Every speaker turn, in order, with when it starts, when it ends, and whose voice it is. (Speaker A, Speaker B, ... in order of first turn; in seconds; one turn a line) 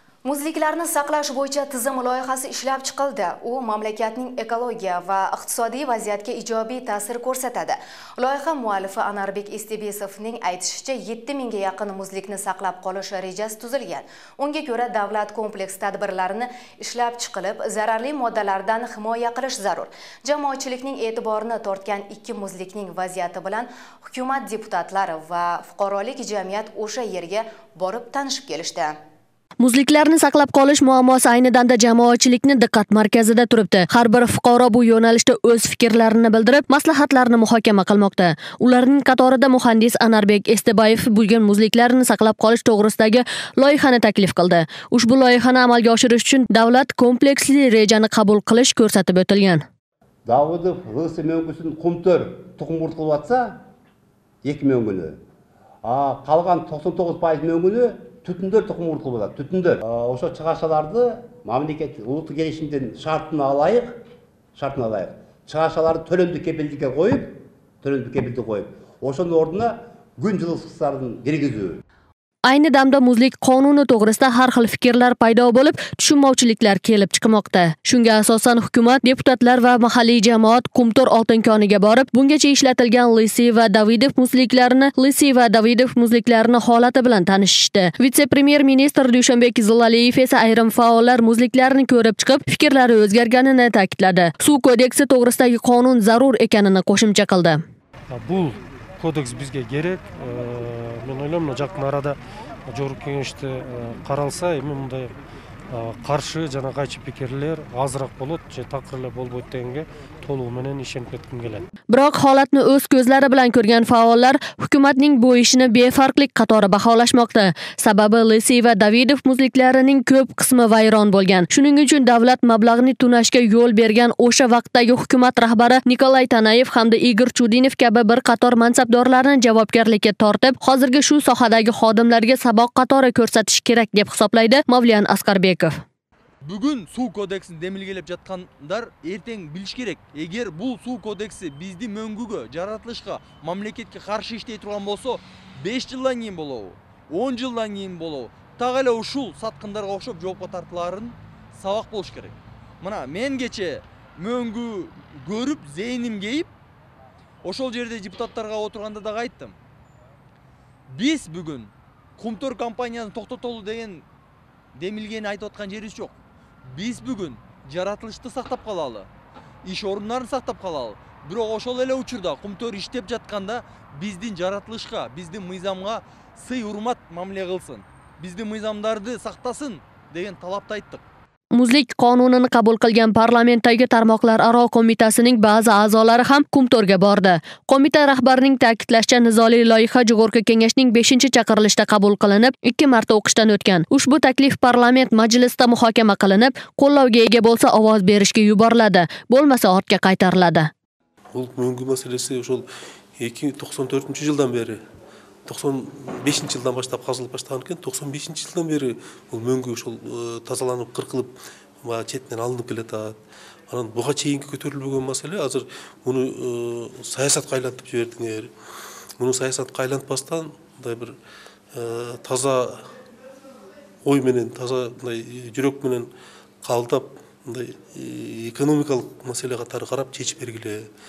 Speaker A: 0.2-28.9
Speaker B: 29.6-49.6
Speaker C: 50.2-53.6
Speaker C: 54.4-55.2
Speaker C: 55.8-64.0
Speaker C: 64.5-71.8
Speaker B: 72.5-97.6
Speaker D: 98.1-105.1
Speaker D: 105.7-111.7
Speaker B: 111.9-135.8
Speaker E: 136.4-156.5
Speaker E: 157.4-159.6
Speaker E: 160.9-164.0
Speaker E: 164.7-169.1
Speaker E: 169.6-181.0
Speaker B: 181.5-200.7
Speaker F: 201.3-202.7
Speaker F: 203.2-204.8
Speaker F: 205.5-213.2
Speaker F: 213.7-218.5
Speaker F: 219.2-221.2
Speaker F: 221.7-222.9
Speaker F: 224.0-226.1
Speaker F: 226.6-230.9